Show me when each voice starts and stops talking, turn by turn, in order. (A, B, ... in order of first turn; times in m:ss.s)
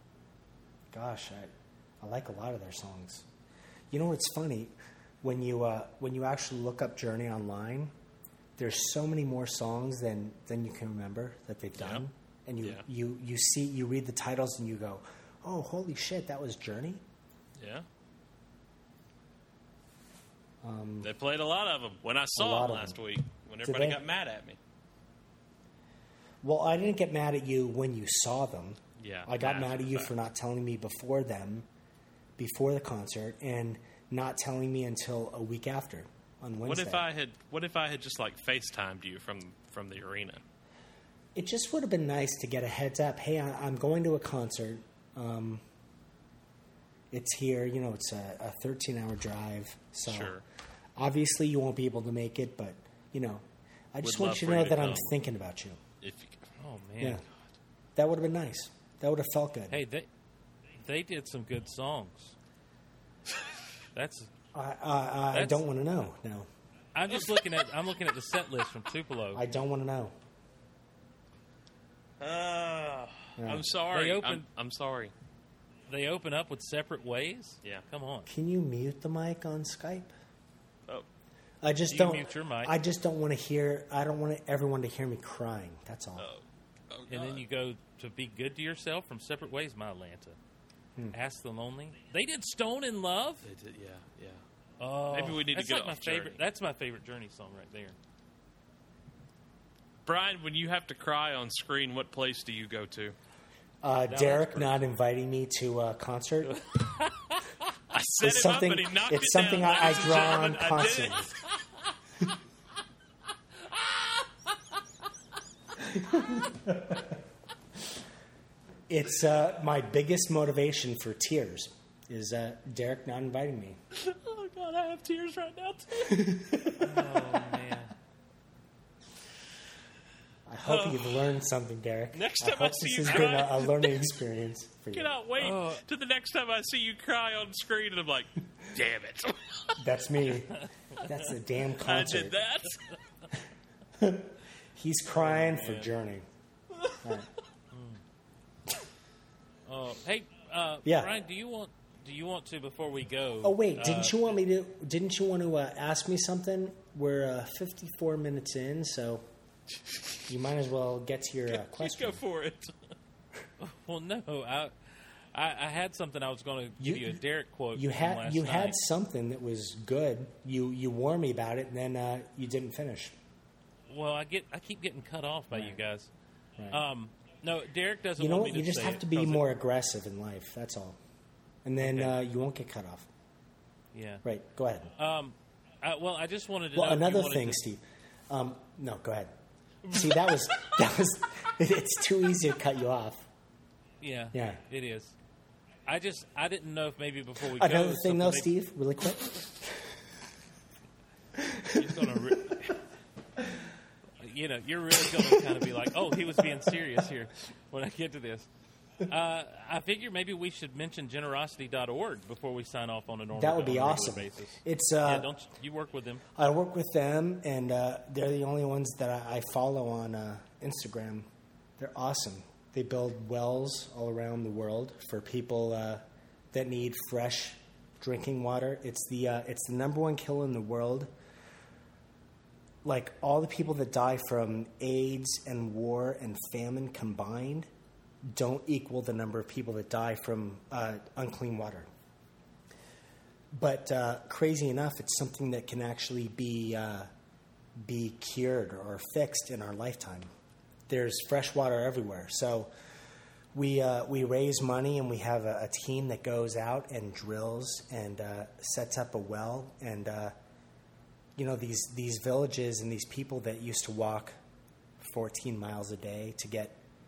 0:00.9-0:03.3 A
0:03.9-0:07.9 A
0:08.6-0:17.0 A
0:11.8-0:12.0 B
0:17.6-0:17.8 B
0:20.6-0:21.1 A
0:21.0-0:24.6 B
0:22.4-0:23.0 A
0:23.6-0:24.0 A
0:26.4-0:31.7 A
0:29.0-0:30.1 B
0:32.4-0:37.1 A
0:36.6-0:40.4 B
0:41.4-0:45.6 A
0:47.1-0:50.4 A
0:50.1-0:50.4 B
0:51.0-0:55.8 A
0:54.0-0:55.2 B
0:56.0-0:56.5 B
0:56.6-0:57.2 C
0:58.0-0:59.8 A
0:59.7-1:00.1 C
1:00.8-1:02.4 C
1:03.9-1:04.3 C
1:04.5-1:06.5 A
1:05.3-1:05.6 C
1:07.0-1:09.4 C
1:09.3-1:10.1 A
1:12.2-1:15.1 B
1:13.4-1:13.7 A
1:13.9-1:14.4 C
1:15.9-1:18.3 C
1:18.3-1:20.1 A
1:21.6-1:26.3 A
1:21.9-1:22.8 C
1:26.2-1:27.4 B
1:27.1-1:30.4 C
1:31.1-1:33.5 C
1:33.4-1:34.4 B
1:34.8-1:38.0 C
1:35.1-1:36.4 B
1:40.1-1:43.2 B
1:43.8-1:46.6 A
1:44.1-1:44.8 C
1:46.4-1:47.4 C
1:47.9-1:51.4 B
1:48.2-1:51.3 A
1:55.9-1:57.1 A
1:58.9-2:03.8 A
2:03.9-2:06.4 B
2:06.1-2:07.0 A
2:06.8-2:07.9 C
2:10.5-2:15.2 A
2:10.6-2:11.3 B
2:12.1-2:14.0 B
2:14.9-2:19.8 B
2:15.4-2:15.8 C
2:19.8-2:22.4 A
2:21.8-2:22.8 B
2:24.0-2:26.3 A
2:25.2-2:25.8 C
2:27.0-2:27.3 A
2:27.7-2:28.0 C
2:29.7-2:34.4 C
2:30.8-2:31.1 A
2:33.4-2:39.2 A
2:40.3-2:42.2 A
2:41.5-2:42.8 B
2:43.6-2:44.8 C
2:45.3-2:48.8 C
2:46.8-2:47.2 A
2:47.7-2:53.2 A
2:53.9-2:56.1 C
2:55.5-2:55.8 A
2:56.7-2:59.5 C
2:58.2-3:01.0 A
3:01.6-3:03.1 A
3:01.8-3:02.2 C
3:03.9-3:04.2 C
3:04.2-3:04.9 A
3:05.0-3:07.6 C
3:06.7-3:09.3 A
3:09.9-3:13.3 A
3:14.0-3:15.2 C
3:14.3-3:14.6 A
3:15.9-3:18.5 C
3:17.4-3:19.9 A
3:21.4-3:22.2 A
3:21.7-3:22.8 C
3:24.2-3:28.5 C
3:29.1-3:36.2 C
3:33.3-3:35.3 A
3:36.4-3:51.1 A
3:52.8-3:57.7 A
3:58.3-4:01.9 A
4:03.5-4:07.1 A
4:07.8-4:10.3 A
4:10.9-4:12.7 A
4:13.5-4:20.3 A
4:21.4-4:24.4 A
4:25.0-4:26.8 A